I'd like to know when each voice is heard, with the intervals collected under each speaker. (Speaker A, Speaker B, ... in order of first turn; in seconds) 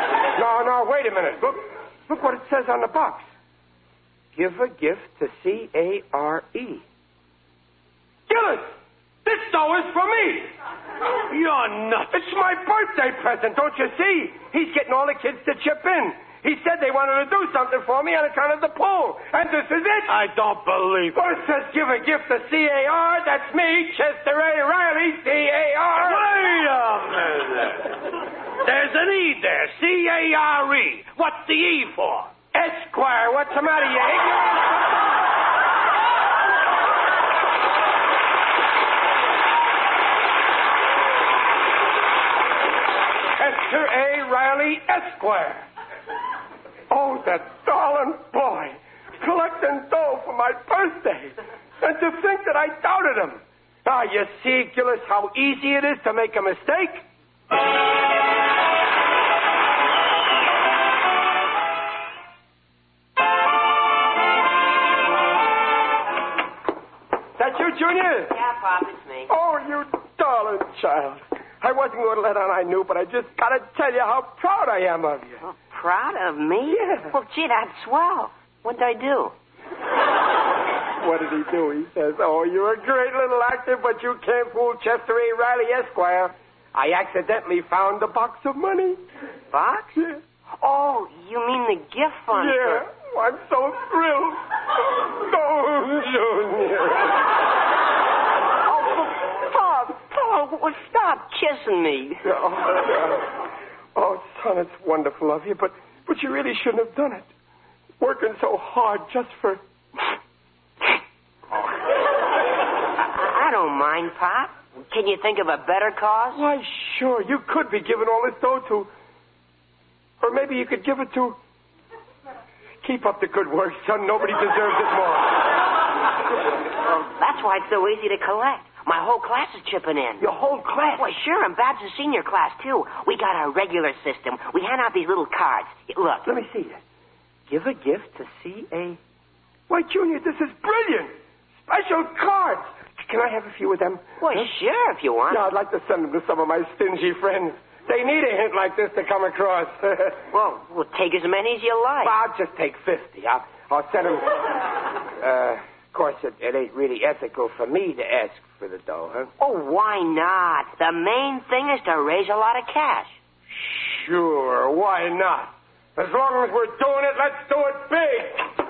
Speaker A: 0.3-3.3, 4.3-6.8, 8.3-10.5, 12.1-20.1, 21.1-26.4, 32.5-35.0, 43.4-45.7, 46.9-57.0, 67.4-68.3, 69.3-75.4, 76.7-77.1, 81.0-89.0, 92.3-97.2, 102.2-103.4, 103.9-107.3, 108.0-110.0, 116.3-118.9, 120.2-121.4, 122.8-125.5, 130.2-131.1, 136.2-136.8, 137.5-139.0, 139.7-144.5, 145.3-150.2, 152.0-154.5, 155.2-159.3, 163.5-168.5
Speaker B: 11.3-12.2, 20.1-21.3, 26.0-27.9, 28.6-32.3
Speaker C: 68.3-69.3, 75.4-79.3, 89.5-90.0, 90.6-92.8, 98.7-102.2, 113.0-116.4, 126.9-130.2, 131.0-136.3, 144.2-145.4, 150.3-152.1, 159.4-163.2